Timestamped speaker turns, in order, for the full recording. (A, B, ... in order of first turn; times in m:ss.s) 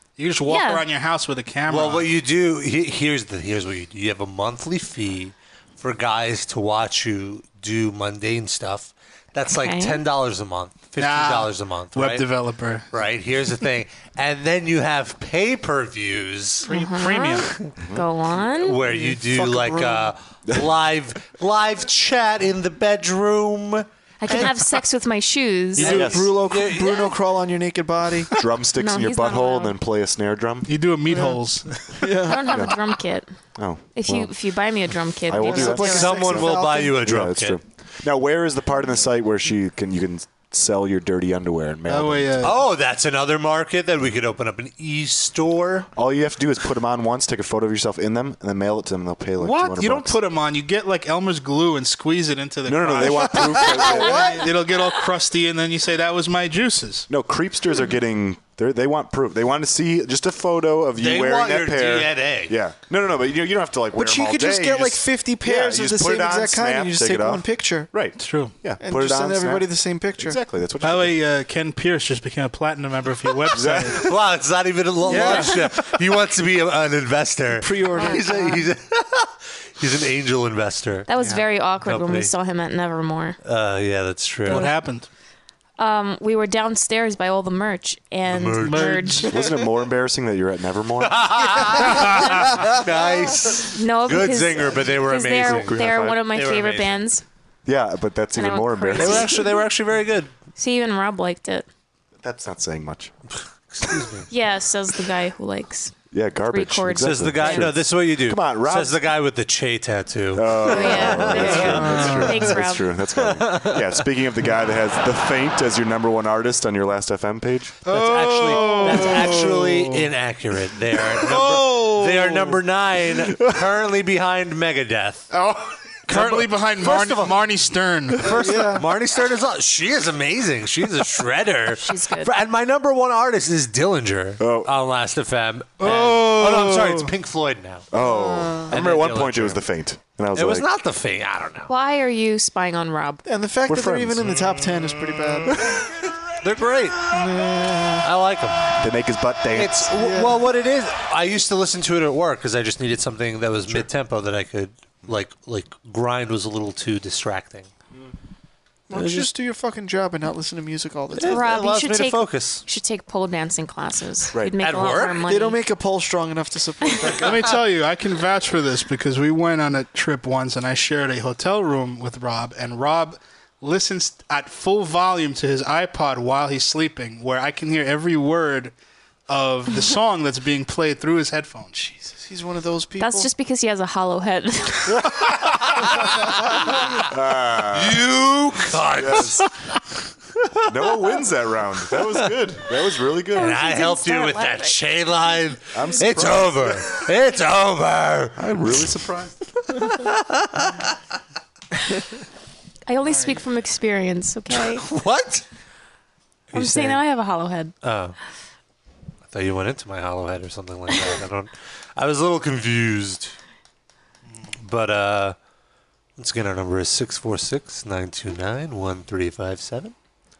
0:00.2-0:02.1 A
0:00.5-0:00.9 B
0:01.7-0:12.3 C
0:09.6-0:10.0 B
0:11.0-0:12.9 A
0:12.9-0:16.7 C
0:16.6-0:17.5 A
0:16.7-0:18.8 B
0:17.8-0:18.0 D
0:18.6-0:24.6 C
0:18.8-0:20.1 E
0:24.2-0:26.1 B
0:25.8-0:26.3 D
0:25.8-0:28.3 E
0:25.8-0:27.2 C
0:28.3-0:30.7 D
0:28.8-0:29.8 B
0:30.7-0:32.0 A
0:31.1-0:31.4 E
0:32.0-0:32.6 E
0:32.3-0:33.3 B
0:32.5-0:32.8 D
0:33.6-0:34.3 D
0:33.9-0:36.1 B
0:35.3-0:42.5 D
0:35.4-0:37.0 E
0:35.7-0:37.6 C
0:41.9-0:42.6 A
0:42.4-0:45.9 C
0:46.0-0:50.2 D
0:49.4-0:57.1 A
0:52.7-0:54.4 D
0:53.5-0:54.5 E
0:57.1-1:11.2 D
1:01.0-1:02.6 C
1:04.0-1:07.9 E
1:08.2-1:08.6 A
1:08.8-1:10.4 E
1:10.8-1:14.1 A
1:13.5-1:14.1 D
1:13.9-1:21.1 C
1:15.1-1:15.5 E
1:15.1-1:15.9 A
1:17.6-1:18.4 E
1:18.0-1:18.6 B
1:21.1-1:23.4 B
1:21.8-1:22.3 C
1:23.4-1:24.8 C
1:24.5-1:25.1 A
1:25.8-1:29.3 B
1:28.3-1:29.0 C
1:28.6-1:29.4 A
1:29.3-1:31.6 D
1:31.0-1:37.1 C
1:31.8-1:32.4 A
1:33.6-1:37.2 B
1:35.4-1:36.2 D
1:37.7-1:39.3 D
1:38.4-1:39.4 B
1:39.0-1:40.3 C
1:40.6-1:41.7 B
1:42.2-1:43.1 D
1:43.7-1:44.3 C
1:44.3-1:45.9 B
1:46.1-1:49.0 D
1:46.5-1:47.7 B
1:47.0-1:52.2 C
1:50.3-1:57.8 D
1:50.7-1:52.9 B
1:51.9-1:52.3 A
1:53.2-1:54.0 C
1:57.8-2:00.0 A
1:57.9-2:05.3 C
1:58.8-1:59.1 E
2:01.2-2:02.6 A
2:05.3-2:05.7 D
2:06.1-2:08.8 A
2:06.1-2:07.4 C
2:08.2-2:17.9 C
2:08.3-2:08.8 E
2:11.7-2:12.3 B
2:14.4-2:14.7 D
2:15.8-2:17.1 A
2:17.9-2:20.7 D
2:18.0-2:18.7 E
2:18.7-2:19.6 C
2:20.3-2:21.7 C
2:21.7-2:23.2 B
2:23.2-2:25.6 E
2:23.7-2:24.4 D
2:26.4-2:27.1 C
2:27.1-2:28.1 E
2:28.0-2:28.6 C
2:28.8-2:29.9 D
2:29.5-2:37.7 C
2:29.9-2:30.4 E
2:38.9-2:41.5 E
2:38.9-2:39.3 C
2:41.1-2:42.6 C
2:41.2-2:45.6 B
2:44.6-2:45.2 C
2:45.3-2:47.6 E
2:47.2-2:58.7 A
2:59.3-3:02.1 A
3:02.1-3:03.3 E
3:03.0-3:05.1 B
3:04.9-3:05.3 D
3:07.0-3:08.1 D
3:07.7-3:09.5 C
3:08.9-3:09.5 D
3:10.6-3:13.6 D
3:13.3-3:14.8 B
3:13.4-3:18.9 C
3:15.7-3:16.9 D
3:18.4-3:19.3 D
3:19.7-3:20.9 C
3:22.9-3:24.8 B
3:24.5-3:25.4 C
3:26.5-3:27.0 C
3:26.5-3:27.7 B
3:27.8-3:28.2 C
3:29.3-3:33.4 C
3:34.6-3:35.4 C
3:36.2-3:39.9 C